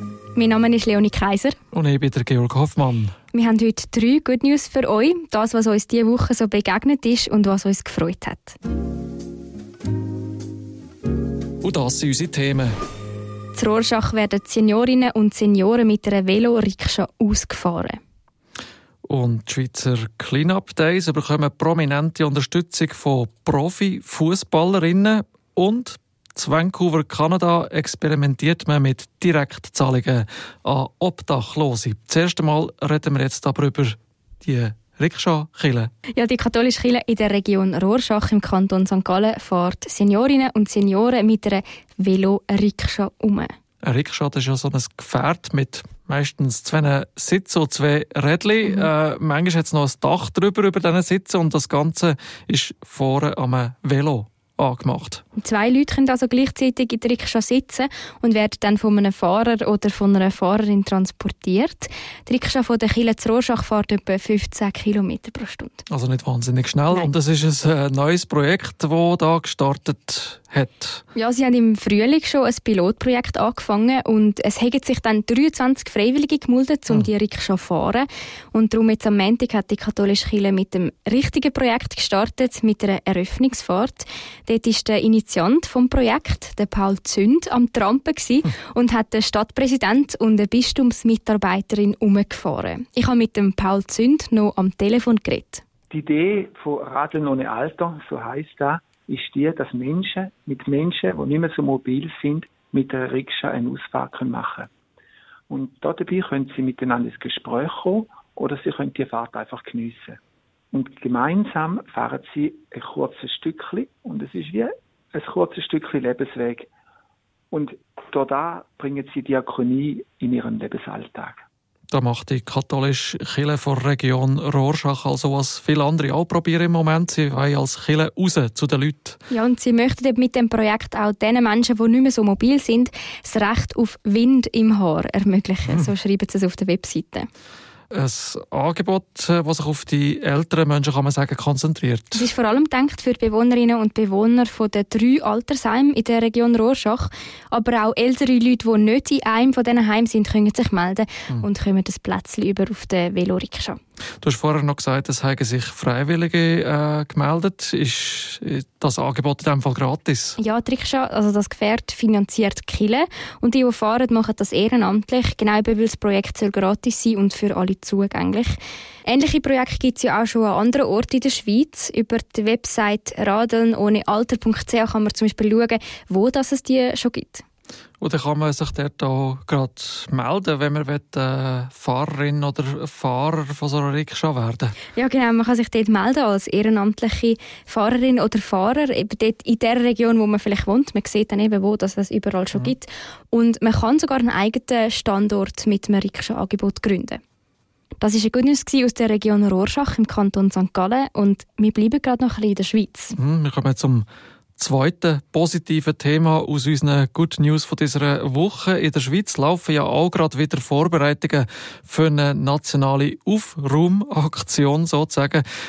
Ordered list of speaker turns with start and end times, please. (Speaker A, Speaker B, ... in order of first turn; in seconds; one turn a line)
Speaker A: 0.3-1.6
Speaker B: 1.7-3.1
Speaker A: 3.3-8.6
Speaker B: 11.6-12.7
Speaker A: 13.5-18.0
Speaker B: 19.1-35.9
Speaker A: 36.1-43.5
Speaker B: 43.8-55.2
Speaker A: 55.4-65.8
Speaker B: 65.9-71.0
Speaker A: 71.1-95.6
Speaker C: 95.9-104.7
Speaker C: 105.5-110.2
Speaker C: 110.7-116.7
Speaker C: 117.5-121.4
Speaker B: 121.9-129.2
Speaker A: 129.3-137.3
Speaker B: 137.9-142.2
Speaker A: 142.1-153.8
Speaker B: 154.2-160.4
Speaker A: 160.4-177.4
Speaker B: 178.0-184.8
Speaker A: 184.9-197.2
Speaker A: 198.0-203.1
Speaker B: 203.2-204.1
Speaker B: 204.6-215.4